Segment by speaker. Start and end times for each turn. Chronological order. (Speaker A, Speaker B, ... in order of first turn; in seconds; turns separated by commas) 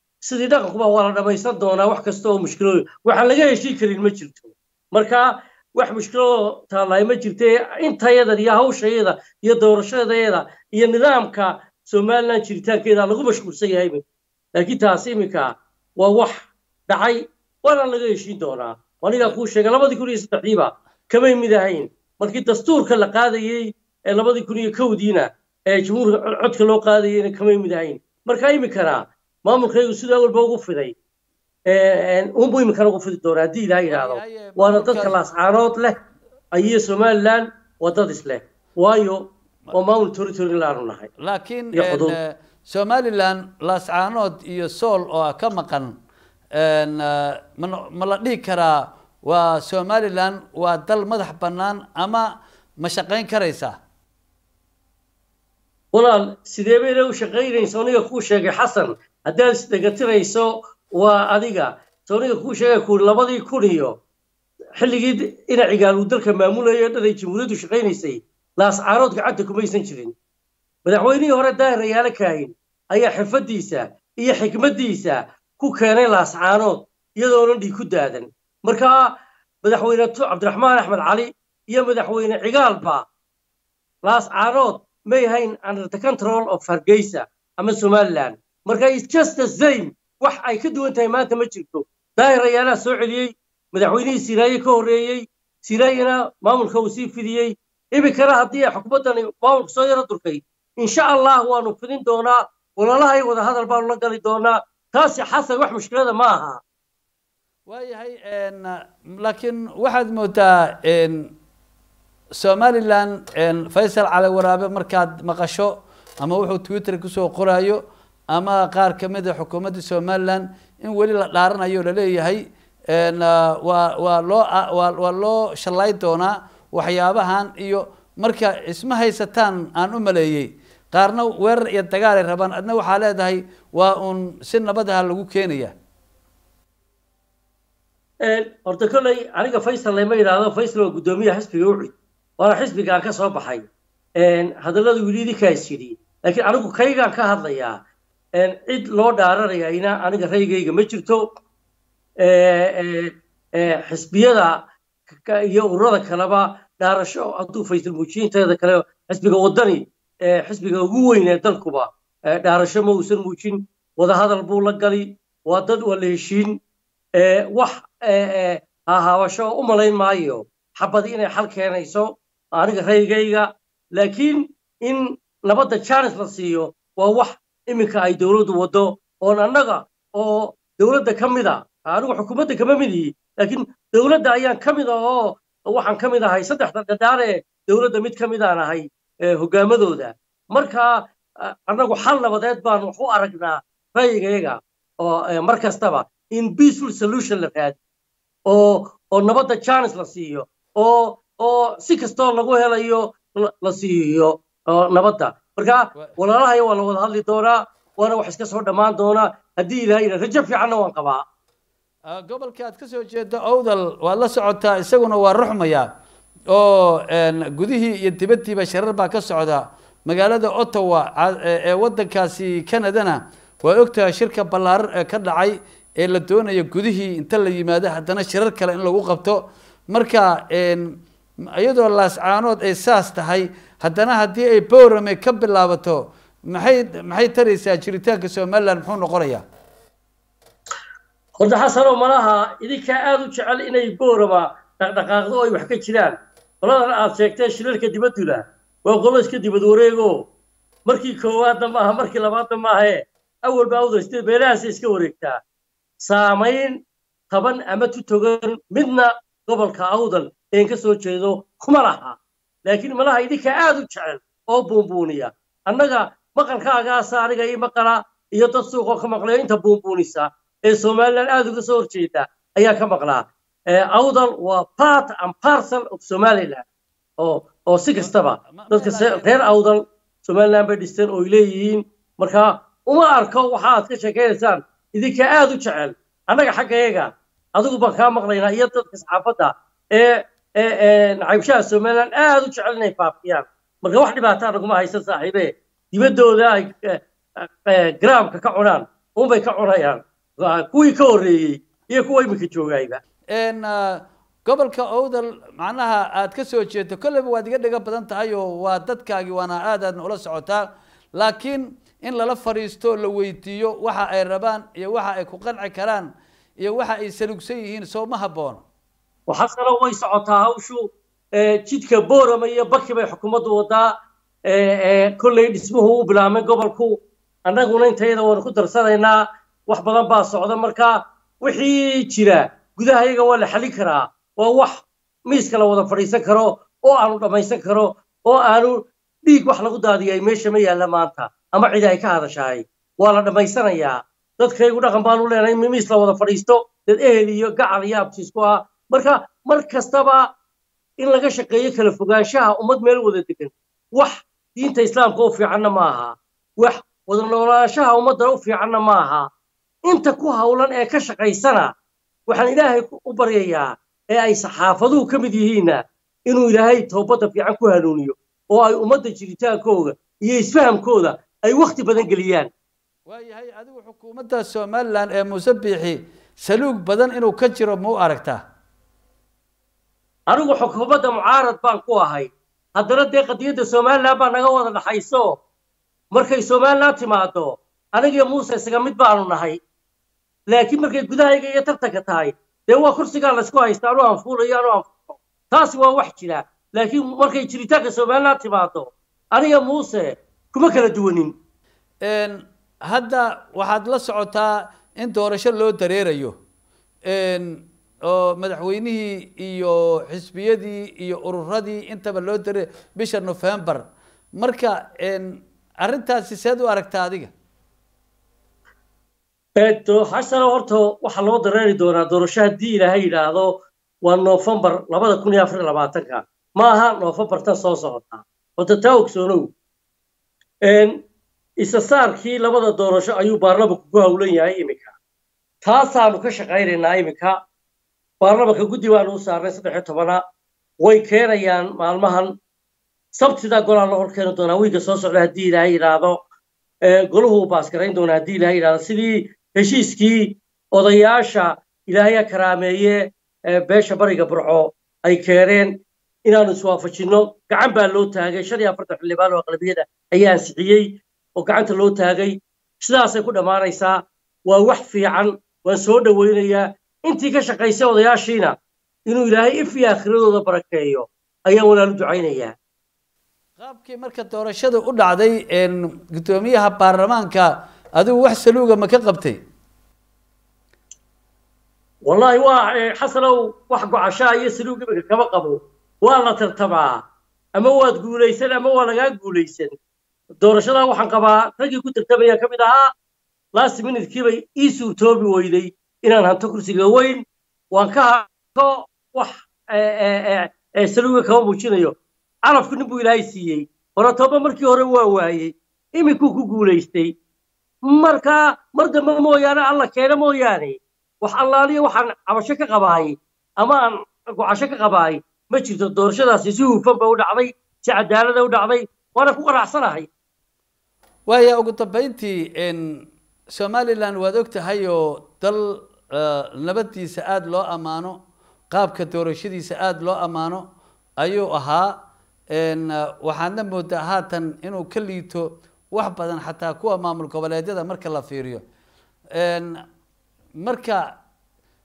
Speaker A: 0.2-14.0, Speaker A: 14.6-30.9, Speaker A: 31.6-36.0, Speaker B: 33.9-35.3, Speaker A: 36.5-41.1, Speaker B: 41.2-45.9, Speaker A: 41.7-42.1, Speaker B: 46.5-53.8, Speaker A: 55.9-63.9, Speaker A: 64.8-70.1, Speaker A: 70.8-83.1, Speaker A: 84.0-106.6, Speaker B: 107.7-111.3, Speaker B: 112.3-117.8, Speaker B: 118.3-135.7, Speaker A: 138.2-147.8, Speaker A: 148.3-151.2, Speaker A: 152.2-166.6, Speaker A: 167.1-197.8, Speaker A: 198.4-211.2, Speaker B: 212.1-215.9, Speaker B: 216.5-231.0, Speaker B: 231.6-239.4, Speaker A: 241.4-250.3, Speaker A: 250.8-255.4, Speaker A: 256.0-256.8, Speaker A: 257.3-276.6, Speaker A: 277.2-303.0, Speaker B: 278.0-279.3, Speaker B: 303.3-318.6, Speaker A: 319.3-323.9, Speaker A: 324.5-350.3, Speaker A: 351.0-359.3, Speaker A: 359.9-361.7, Speaker A: 362.3-372.5, Speaker B: 373.1-378.4, Speaker A: 380.3-385.4, Speaker A: 386.1-389.6, Speaker A: 390.5-401.3, Speaker B: 402.0-406.3, Speaker B: 407.1-413.8, Speaker B: 414.4-417.3, Speaker A: 419.6-429.5, Speaker A: 430.6-431.0, Speaker A: 431.6-435.0, Speaker A: 435.6-437.4, Speaker A: 438.2-440.2, Speaker A: 440.8-442.3, Speaker A: 443.1-446.2, Speaker A: 446.8-468.5, Speaker A: 469.1-472.6, Speaker B: 473.6-479.4, Speaker A: 482.1-487.0, Speaker A: 487.5-489.7, Speaker A: 490.4-492.9, Speaker A: 493.5-507.1, Speaker A: 507.9-520.1, Speaker B: 521.3-528.2, Speaker B: 528.7-530.6, Speaker B: 531.2-532.0, Speaker B: 532.5-538.6, Speaker B: 539.3-539.8, Speaker B: 540.6-541.1